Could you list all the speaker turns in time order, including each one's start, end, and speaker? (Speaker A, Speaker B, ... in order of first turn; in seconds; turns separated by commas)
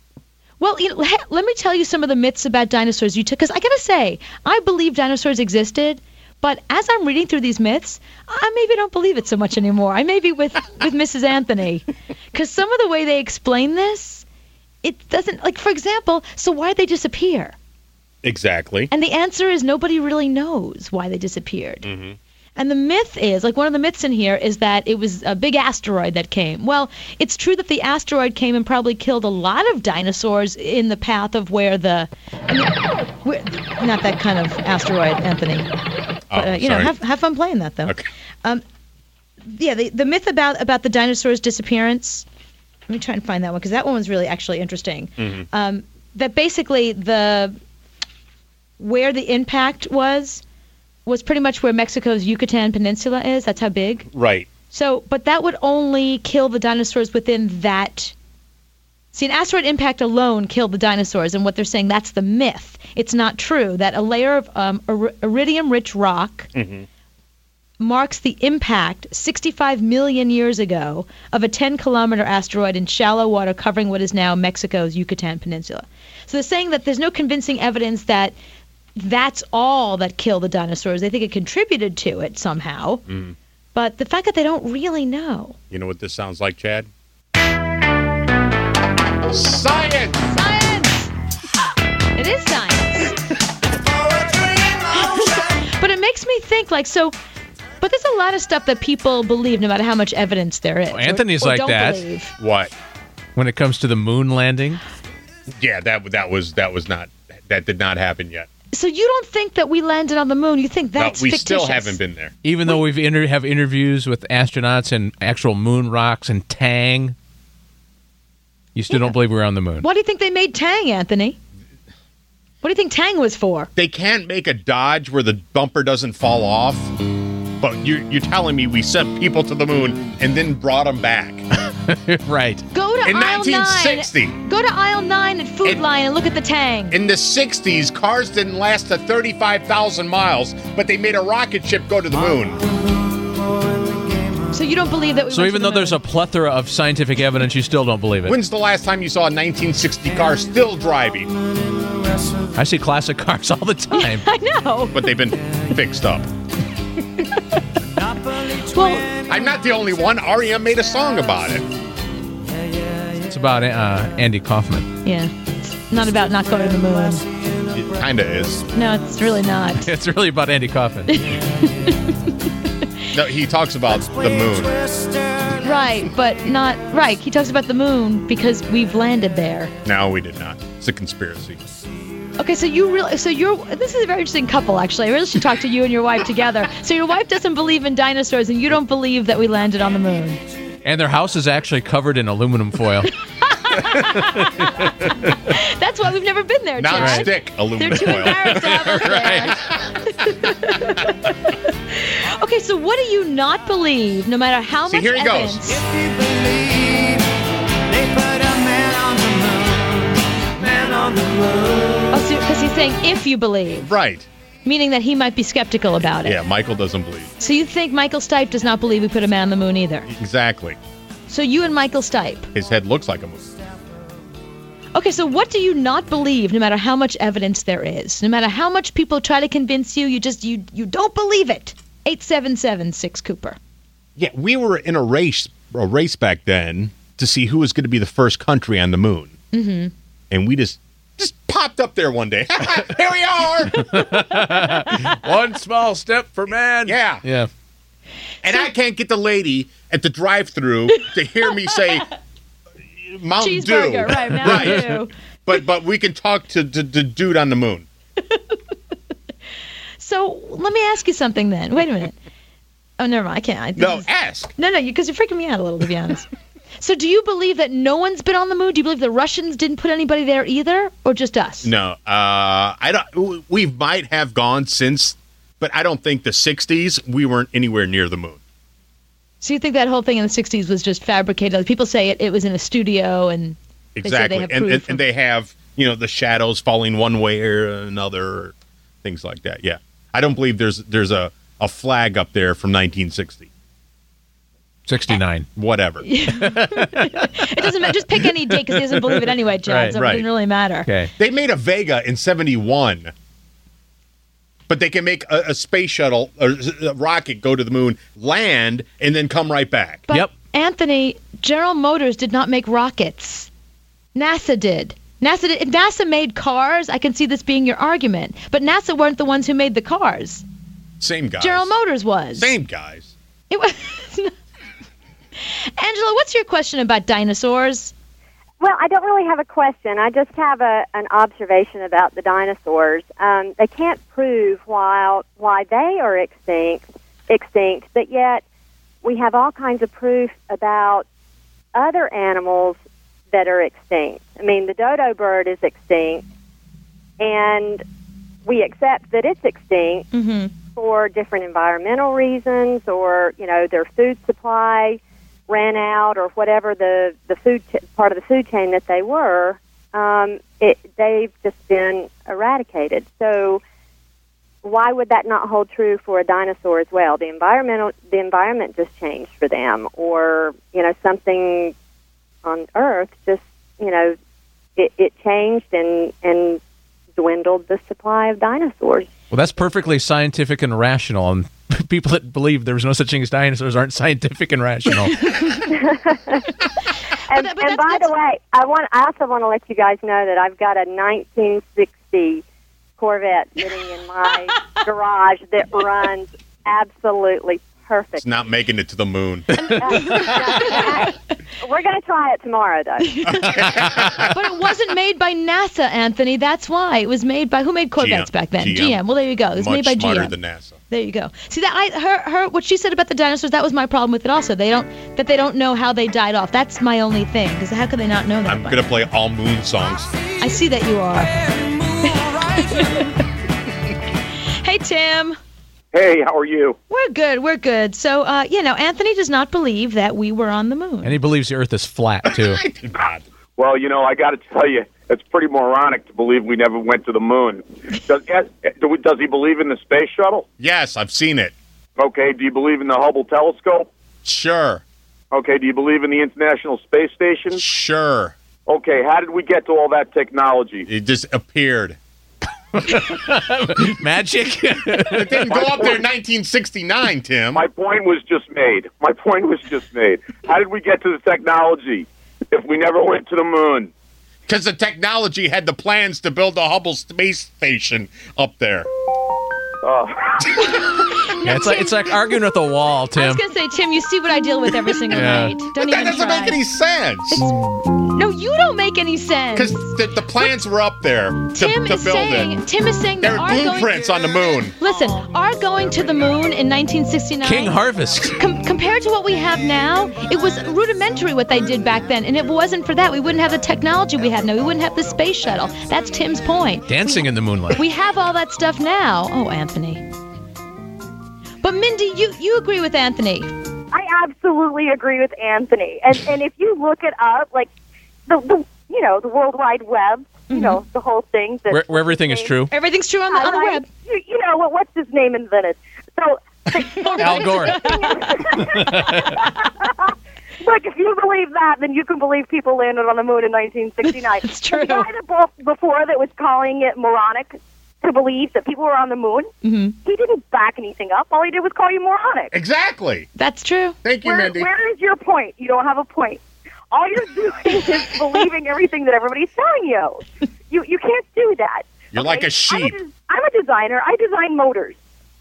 Speaker A: 0.6-14.2, Speaker A: 14.8-17.6, Speaker B: 18.2-18.9, Speaker A: 18.9-21.9, Speaker B: 21.8-22.1, Speaker A: 22.6-35.7, Speaker B: 36.3-36.9, Speaker A: 36.3-38.6, Speaker A: 39.4-42.2, Speaker A: 42.9-47.6, Speaker B: 45.2-45.5, Speaker A: 48.8-50.4, Speaker A: 51.0-54.1, Speaker B: 54.1-54.5, Speaker A: 54.7-58.1, Speaker A: 59.1-66.5, Speaker B: 66.5-66.8, Speaker A: 67.8-78.3, Speaker A: 79.0-83.0, Speaker B: 83.1-83.3, Speaker A: 83.7-85.6, Speaker B: 85.7-86.9, Speaker B: 89.3-90.2, Speaker A: 90.2-91.1, Speaker A: 92.2-93.1, Speaker A: 94.9-97.1, Speaker A: 97.8-102.3, Speaker C: 100.9-102.0, Speaker B: 102.4-102.7, Speaker C: 103.3-104.8, Speaker B: 105.5-108.5, Speaker A: 108.7-112.0, Speaker B: 111.0-112.3, Speaker C: 112.4-117.2, Speaker C: 118.7-119.9, Speaker A: 119.8-121.4, Speaker A: 122.6-123.7, Speaker B: 123.8-126.9, Speaker B: 127.6-131.4, Speaker C: 131.9-132.7, Speaker A: 132.7-137.0, Speaker B: 133.0-134.4, Speaker B: 136.9-142.6, Speaker A: 144.5-146.0, Speaker C: 145.3-148.4, Speaker B: 148.2-151.3, Speaker C: 152.5-154.2, Speaker A: 153.9-155.1, Speaker B: 154.9-156.2, Speaker A: 158.5-159.6, Speaker B: 159.2-161.7, Speaker C: 163.3-164.9, Speaker A: 165.0-167.2, Speaker B: 167.7-168.7, Speaker A: 168.7-169.8, Speaker C: 169.8-171.1, Speaker A: 171.1-172.3, Speaker B: 173.1-174.8, Speaker A: 175.6-179.7, Speaker B: 179.8-181.6, Speaker A: 182.4-190.4, Speaker C: 190.8-193.1, Speaker A: 193.4-194.5, Speaker A: 195.5-205.8, Speaker B: 196.8-199.7, Speaker C: 197.0-197.3, Speaker C: 198.5-199.5, Speaker B: 204.8-205.6, Speaker A: 212.1-213.9, Speaker B: 213.8-214.3, Speaker A: 214.6-216.4, Speaker B: 216.2-217.3, Speaker A: 217.4-220.1, Speaker B: 220.1-220.8, Speaker A: 221.3-222.5, Speaker B: 222.5-223.5, Speaker A: 224.9-233.6, Speaker B: 234.2-239.3, Speaker A: 239.5-239.9, Speaker B: 240.3-243.8, Speaker C: 243.7-247.5, Speaker B: 246.8-247.2, Speaker B: 248.4-252.0, Speaker A: 250.9-252.0, Speaker B: 253.1-254.9, Speaker A: 253.4-255.1, Speaker B: 255.4-257.9, Speaker A: 258.3-258.6, Speaker A: 260.0-262.1, Speaker A: 263.0-266.3, Speaker B: 263.8-264.5, Speaker A: 266.8-271.7, Speaker B: 271.6-278.4, Speaker A: 279.4-285.0, Speaker B: 283.9-293.5, Speaker C: 294.9-295.5, Speaker B: 295.5-296.0, Speaker A: 296.0-300.9, Speaker C: 296.3-300.0, Speaker B: 299.9-300.2, Speaker C: 300.8-301.1, Speaker B: 301.2-303.1, Speaker B: 304.7-310.1, Speaker A: 310.1-313.5, Speaker C: 310.1-310.3, Speaker A: 314.1-320.4, Speaker B: 321.0-321.7, Speaker A: 321.4-322.6, Speaker B: 322.4-323.1, Speaker A: 323.5-324.3, Speaker A: 325.8-327.9, Speaker D: 328.6-338.4, Speaker D: 339.0-341.1, Speaker D: 341.7-342.8, Speaker D: 343.3-346.2, Speaker D: 347.2-347.8, Speaker D: 348.4-350.1, Speaker A: 350.1-350.5, Speaker D: 350.6-363.6, Speaker D: 364.6-371.7, Speaker D: 372.4-374.1, Speaker D: 374.8-376.6, Speaker D: 377.1-379.1, Speaker C: 379.3-385.2, Speaker D: 385.7-386.4, Speaker D: 387.3-392.4, Speaker A: 387.3-388.1, Speaker D: 393.0-398.2, Speaker B: 398.2-399.5, Speaker A: 399.6-401.1, Speaker D: 399.8-403.1, Speaker A: 403.0-403.6, Speaker B: 403.3-404.3, Speaker A: 404.2-410.4, Speaker B: 408.0-409.0, Speaker B: 409.5-410.8, Speaker A: 410.9-418.9, Speaker B: 418.4-420.1, Speaker A: 420.4-421.4, Speaker A: 422.0-423.2, Speaker A: 424.6-425.4, Speaker E: 425.9-426.8, Speaker A: 426.9-431.2, Speaker C: 431.0-432.6, Speaker B: 432.5-433.2, Speaker E: 433.6-440.5, Speaker B: 440.6-441.5, Speaker E: 442.0-443.9, Speaker B: 444.2-444.8, Speaker E: 445.3-447.6, Speaker B: 447.5-448.3, Speaker E: 448.7-450.9, Speaker B: 450.9-452.0, Speaker C: 452.8-455.5, Speaker B: 455.1-457.6, Speaker E: 455.4-456.0, Speaker E: 457.5-463.9, Speaker B: 464.5-468.9, Speaker E: 469.8-470.4, Speaker A: 471.3-472.4, Speaker C: 471.4-473.4, Speaker A: 473.1-476.6, Speaker C: 475.1-475.6, Speaker B: 475.7-477.4, Speaker A: 478.1-480.5, Speaker B: 479.5-482.6, Speaker A: 481.5-484.1, Speaker B: 483.2-484.7, Speaker A: 484.8-487.8, Speaker C: 487.4-488.4, Speaker A: 488.4-500.0, Speaker C: 496.9-497.8, Speaker A: 501.6-503.5, Speaker F: 503.9-507.7, Speaker F: 508.3-512.5, Speaker A: 510.5-510.8, Speaker C: 511.7-512.7, Speaker A: 512.7-513.9, Speaker F: 513.3-520.1, Speaker A: 516.8-518.2, Speaker C: 517.2-517.9, Speaker C: 518.7-519.3, Speaker F: 520.6-529.5, Speaker A: 524.1-525.1, Speaker A: 529.6-529.9, Speaker F: 530.0-532.5, Speaker B: 532.5-533.3, Speaker A: 533.4-534.0, Speaker B: 534.0-534.7, Speaker F: 534.2-536.4, Speaker F: 536.9-545.0, Speaker B: 542.1-543.0